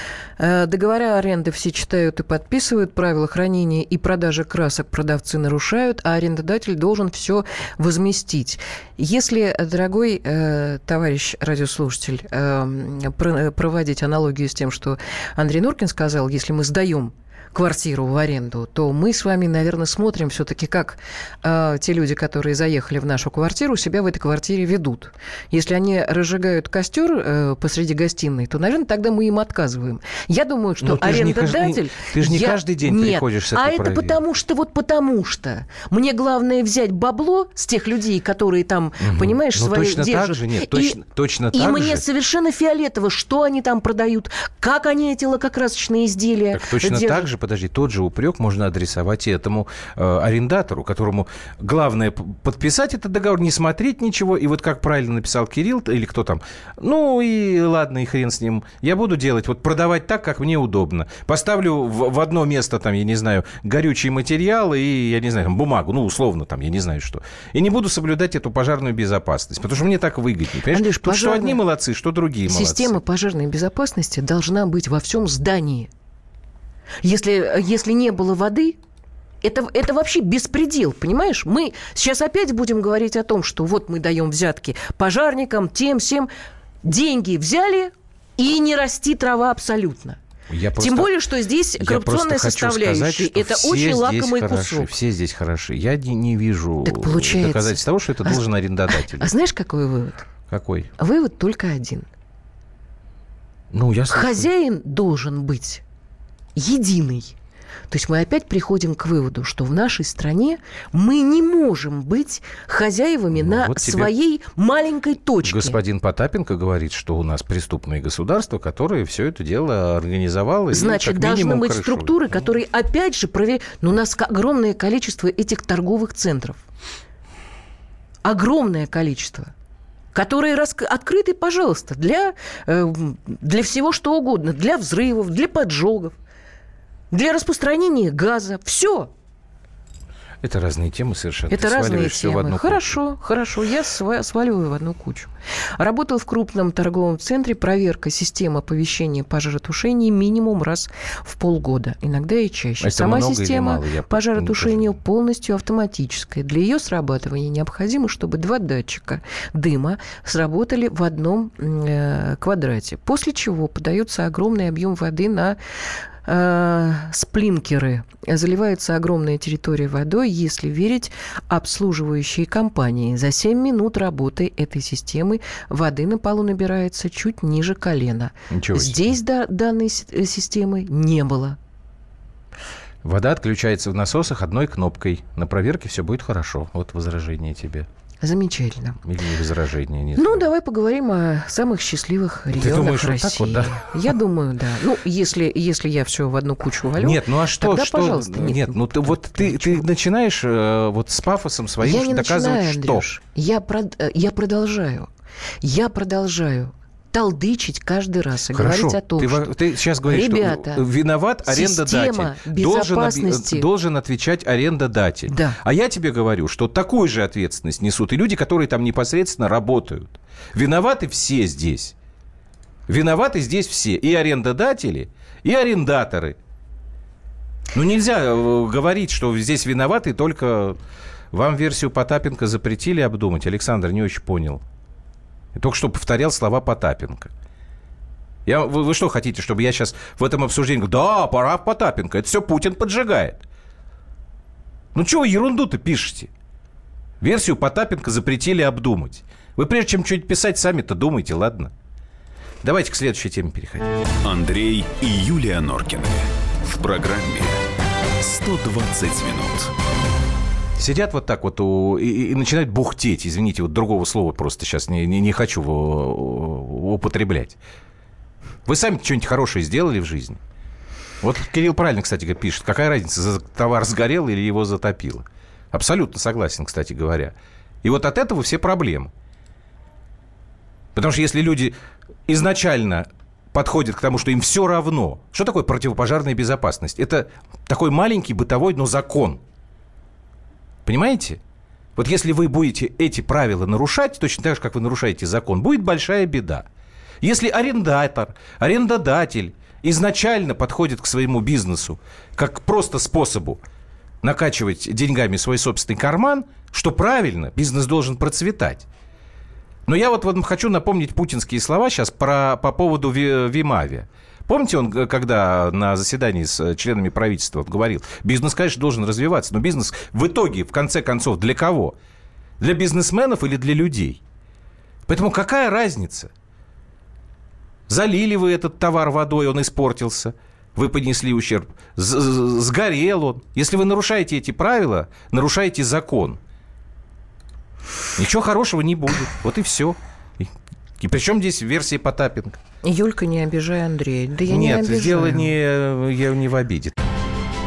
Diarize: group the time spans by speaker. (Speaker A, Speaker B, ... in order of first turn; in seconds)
Speaker A: 0.4-41.0, 41.5-47.3, 70.7-71.6, 72.5-75.9, 77.0-78.8, 79.4-86.3, 86.8-90.2, 90.8-94.9, 96.8-100.3, 101.0-102.1, 104.1-105.8, 106.6-107.3, 107.9-115.8, 120.7-126.6, 128.2-129.5, 130.1-136.2, 137.1-139.1, 141.5-165.6, 166.2-181.6, 188.2-189.0, 190.2-199.8, 201.8-205.1, 205.6-209.5, 210.1-210.8, 211.4-213.7, 215.3-215.6, 342.8-345.5
Speaker B: 30.8-34.2, 39.0-42.0, 46.5-73.0, 90.5-91.1, 91.8-99.3, 100.5-100.9, 103.7-104.5, 113.3-114.1, 115.4-122.3, 140.4-143.0, 152.8-155.0, 178.5-179.1, 183.0-187.9, 189.0-190.4, 192.5-194.2, 197.0-203.1, 208.5-221.9, 222.9-226.4, 227.7-230.8, 231.3-234.6, 235.6-237.3, 238.5-243.4, 244.9-246.3, 247.2-251.7, 252.6-253.9, 260.8-267.6, 268.7-270.4, 271.2-279.1, 280.9-281.8, 282.3-289.4, 290.9-291.4, 292.0-296.7, 297.2-303.6, 304.2-308.9, 309.9-322.0, 322.6-324.2, 325.1-326.3, 327.9-336.4, 338.2-342.6, 344.5-347.0
Speaker C: 254.2-257.6, 258.2-259.7